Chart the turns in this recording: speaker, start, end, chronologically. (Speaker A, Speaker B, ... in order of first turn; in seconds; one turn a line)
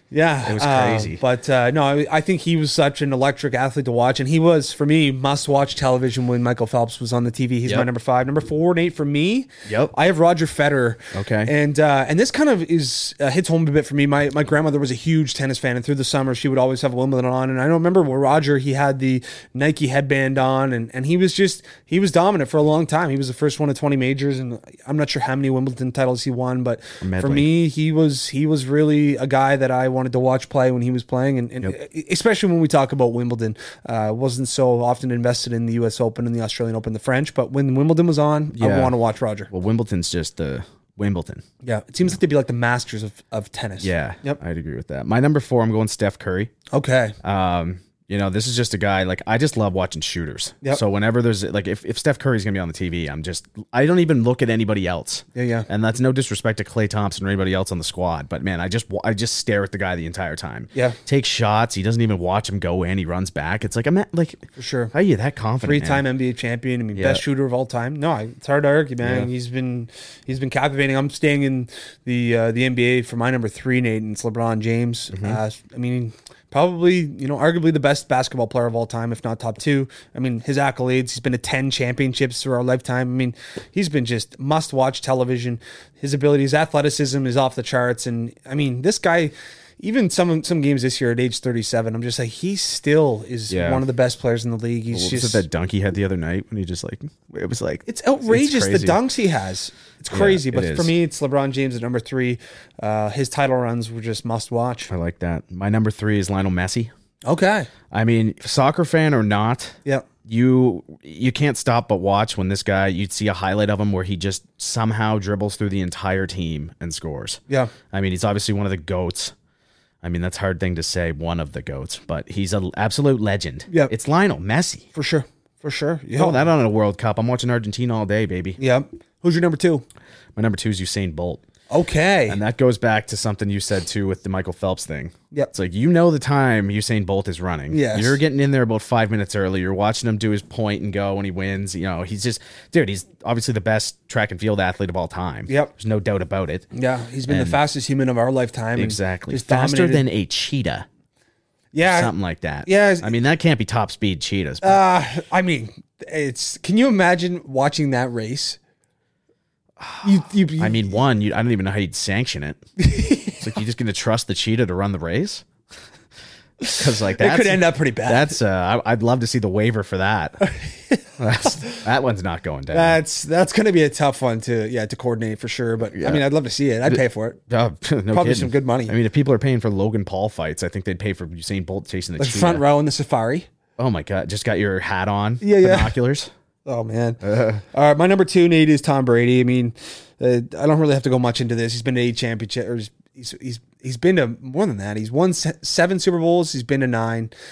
Speaker A: 0.1-39.5
Speaker B: 0.5-1.2
Speaker B: 9.7-9.9
Speaker B: 11.1-11.5
Speaker B: 27.0-27.5
Speaker B: 38.5-39.0
Speaker B: 39.5-41.4
Speaker A: 41.6-44.4
Speaker B: 43.8-46.5
Speaker A: 46.7-47.2
Speaker B: 47.2-66.0
Speaker A: 55.4-55.7
Speaker A: 64.6-64.9
Speaker A: 65.6-95.4
Speaker B: 67.0-67.2
Speaker B: 69.0-69.3
Speaker B: 75.1-75.4
Speaker B: 93.5-93.8
Speaker B: 94.9-99.0
Speaker A: 97.9-104.9
Speaker B: 100.1-100.9
Speaker B: 104.9-106.9
Speaker A: 107.2-107.7
Speaker B: 107.9-119.3
Speaker B: 120.0-124.9
Speaker A: 124.9-126.4
Speaker B: 126.2-128.6
Speaker A: 128.6-129.8
Speaker B: 130.4-131.4
Speaker A: 131.7-132.4
Speaker B: 132.3-146.7
Speaker A: 137.7-138.2
Speaker A: 146.7-150.1
Speaker B: 147.3-147.6
Speaker B: 148.8-150.9
Speaker A: 151.7-152.1
Speaker B: 151.8-154.8
Speaker A: 152.7-153.1
Speaker A: 154.6-158.6
Speaker B: 159.8-162.6
Speaker A: 160.0-160.9
Speaker A: 162.8-163.4
Speaker B: 163.4-165.4
Speaker A: 166.6-168.4
Speaker B: 166.8-170.4
Speaker A: 170.4-171.8
Speaker B: 171.2-173.0
Speaker A: 172.7-177.4
Speaker B: 176.0-176.2
Speaker B: 176.9-182.7
Speaker A: 178.1-178.9
Speaker A: 182.2-183.5
Speaker B: 183.8-186.3
Speaker A: 185.4-185.9
Speaker A: 186.7-197.3
Speaker B: 187.2-187.6